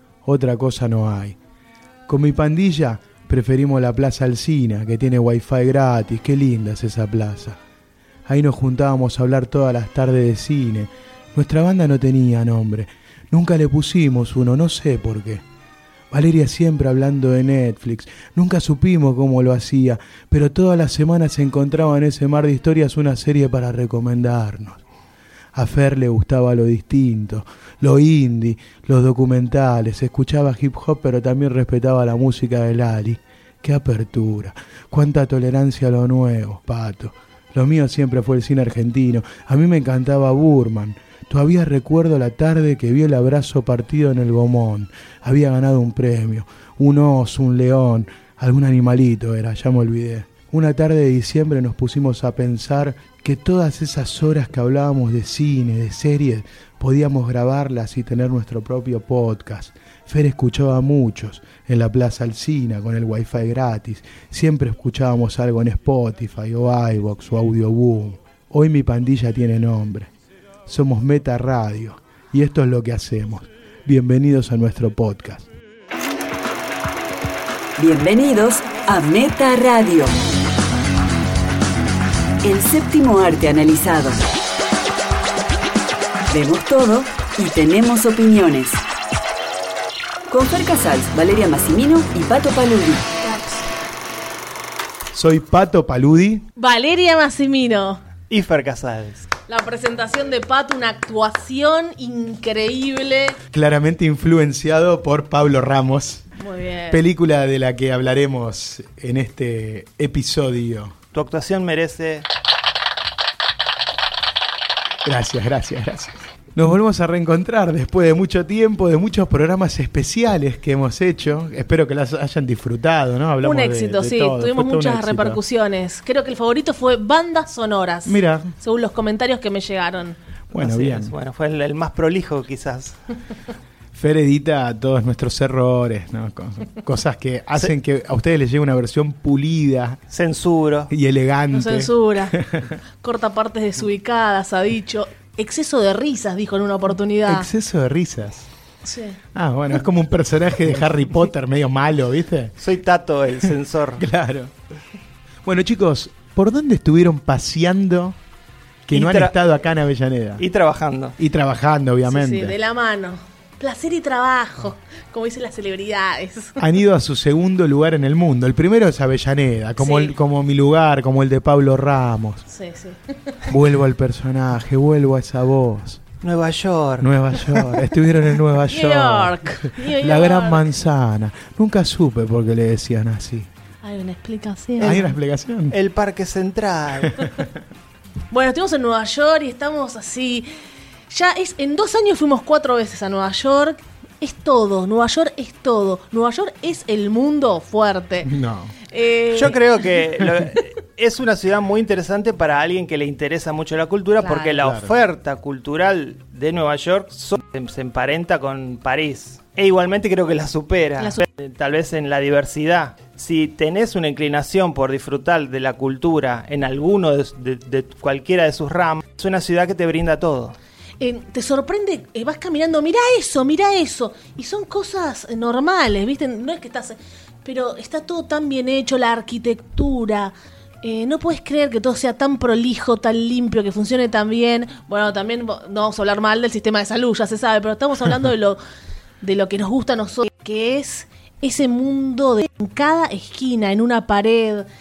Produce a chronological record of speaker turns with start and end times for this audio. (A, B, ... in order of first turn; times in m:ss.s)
0:00.2-0:01.4 A
0:02.1-0:07.6 A
0:08.3-0:15.4 A
0:16.1-0:24.8 A
0:25.5-1:10.1 A
1:10.6-1:15.5 A
1:17.8-1:20.1 B
1:22.4-1:24.2 B
1:26.3-1:28.8 B
1:30.3-1:33.3 B
1:35.1-1:36.4 A
1:36.6-1:38.0 C
1:38.3-1:39.3 D
1:39.5-1:43.4 C
1:43.5-1:46.3 A
1:46.4-1:47.0 C
1:46.9-1:50.9 A
1:51.1-1:52.2 D
1:55.0-2:05.4 A
2:03.4-2:10.2 C
2:08.0-2:08.5 A
2:10.5-2:11.1 A
2:10.5-2:13.0 D
2:13.9-2:20.0 A
2:20.1-2:20.9 D
2:20.9-2:22.8 A
2:21.5-2:22.4 C
2:23.0-2:27.5 C
2:27.2-2:28.5 A
2:28.8-2:29.2 C
2:29.3-2:32.5 A
2:32.6-2:34.0 D
2:34.0-2:34.5 A
2:35.4-2:38.2 A
2:38.9-2:40.4 A
2:38.9-2:39.3 D
2:40.4-2:41.2 D
2:41.2-2:42.6 A
2:42.1-2:46.6 C
2:46.6-2:52.4 A
2:49.8-2:50.1 C
2:52.5-2:53.5 C
2:53.5-2:56.0 A
2:56.2-2:57.9 D
2:57.0-3:03.5 A
2:58.7-3:00.6 C
3:03.8-3:05.0 C
3:04.8-3:05.0 D
3:04.8-3:05.8 A
3:05.7-3:07.3 D
3:08.3-3:10.5 C
3:11.1-3:18.3 C
3:18.2-3:18.8 A
3:18.9-3:19.6 C
3:19.3-3:40.6 D
3:24.2-3:24.6 C
3:24.6-3:24.9 A
3:31.0-3:31.2 C
3:41.0-3:58.6 C
3:59.2-4:04.7 C